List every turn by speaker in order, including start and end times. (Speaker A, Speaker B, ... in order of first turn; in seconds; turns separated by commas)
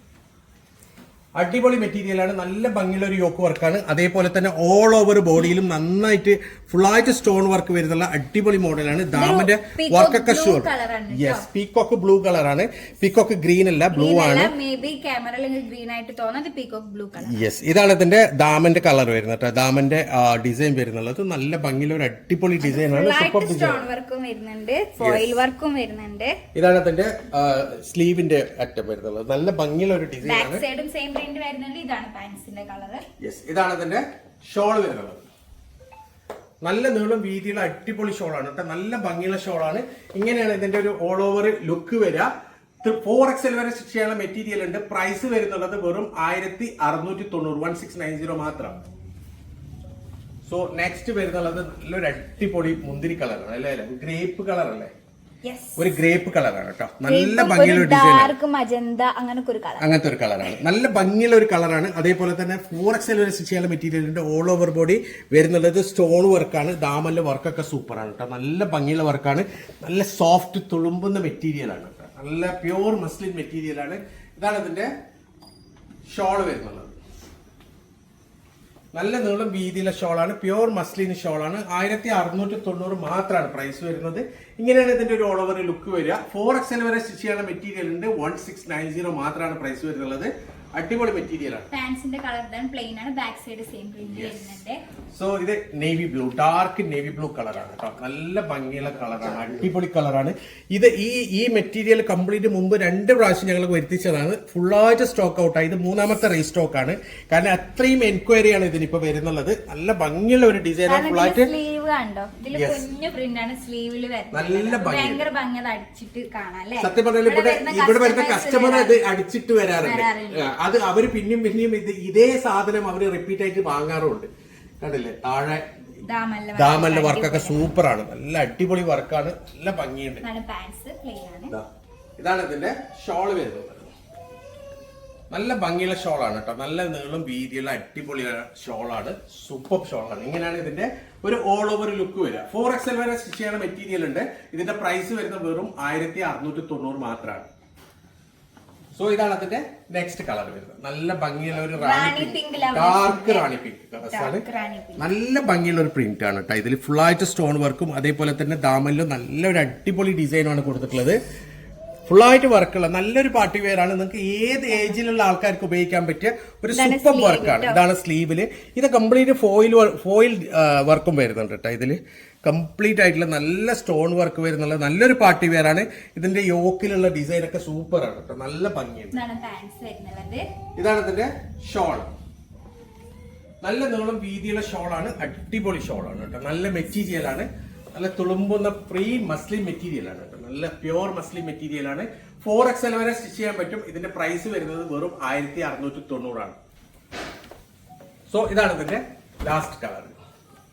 Speaker A: 1.4-14.5, Speaker B: 9.1-11.5, Speaker B: 13.9-17.4, Speaker A: 17.2-23.9, Speaker B: 22.6-26.4, Speaker A: 25.0-25.4, Speaker A: 26.5-30.6, Speaker B: 30.2-33.0, Speaker A: 33.2-35.2, Speaker A: 36.6-42.3, Speaker A: 42.8-48.8, Speaker A: 50.5-54.9, Speaker B: 55.4-56.0, Speaker A: 55.8-58.3, Speaker B: 57.1-59.9, Speaker A: 59.8-74.9, Speaker A: 76.1-77.0, Speaker A: 78.9-91.7, Speaker B: 91.7-94.8, Speaker A: 94.0-94.5, Speaker A: 95.2-111.5, Speaker B: 110.9-119.0, Speaker A: 112.5-112.8, Speaker A: 114.3-115.2, Speaker A: 116.8-124.3, Speaker B: 119.8-120.5, Speaker A: 124.8-125.7, Speaker B: 126.1-127.7, Speaker A: 126.5-130.2, Speaker B: 130.2-131.5, Speaker A: 132.2-133.9, Speaker A: 135.3-147.5, Speaker A: 149.0-154.4, Speaker B: 151.7-153.5, Speaker B: 154.0-155.1, Speaker A: 155.0-161.2, Speaker A: 162.1-179.2, Speaker B: 166.7-167.8, Speaker B: 179.1-180.4, Speaker A: 180.8-182.1, Speaker A: 183.6-196.6, Speaker A: 198.3-200.2